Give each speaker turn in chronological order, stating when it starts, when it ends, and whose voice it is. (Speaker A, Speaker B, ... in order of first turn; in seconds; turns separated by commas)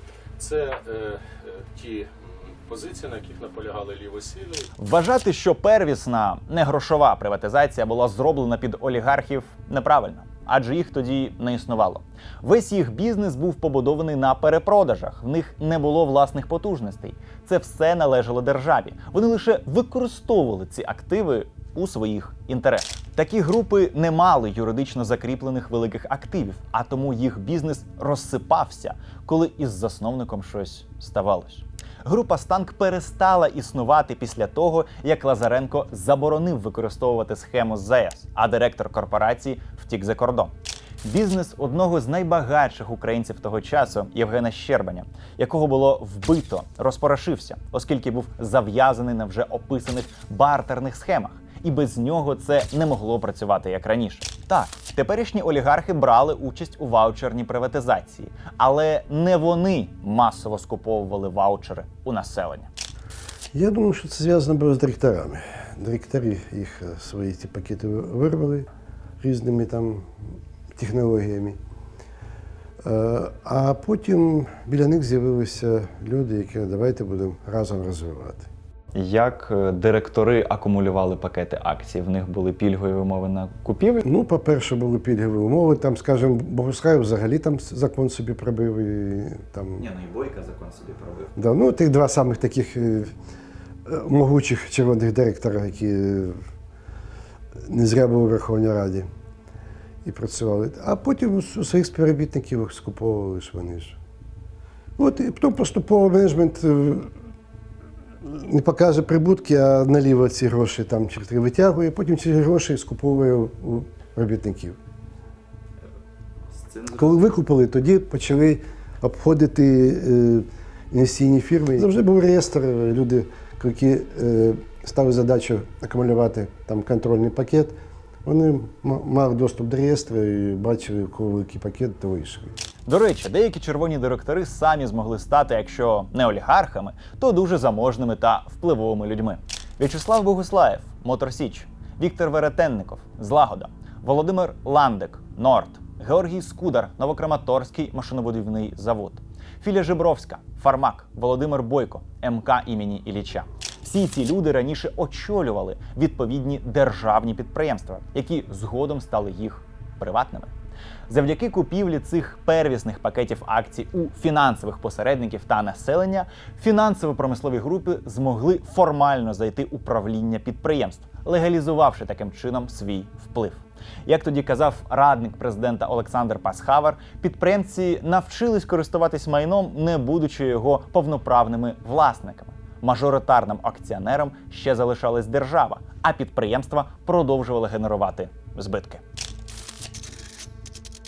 Speaker A: 0.4-4.7, Speaker B: 4.8-62.7, Speaker C: 63.5-68.7, Speaker C: 69.2-70.1, Speaker C: 70.7-71.6, Speaker C: 72.8-78.5, Speaker B: 78.9-84.0, Speaker C: 84.0-89.8, Speaker B: 89.8-91.3, Speaker C: 91.4-93.1, Speaker C: 93.9-96.4, Speaker C: 97.7-99.1, Speaker C: 100.0-104.0, Speaker C: 105.0-107.1, Speaker C: 108.2-114.8, Speaker C: 116.9-132.5, Speaker B: 132.9-160.5, Speaker B: 161.1-189.0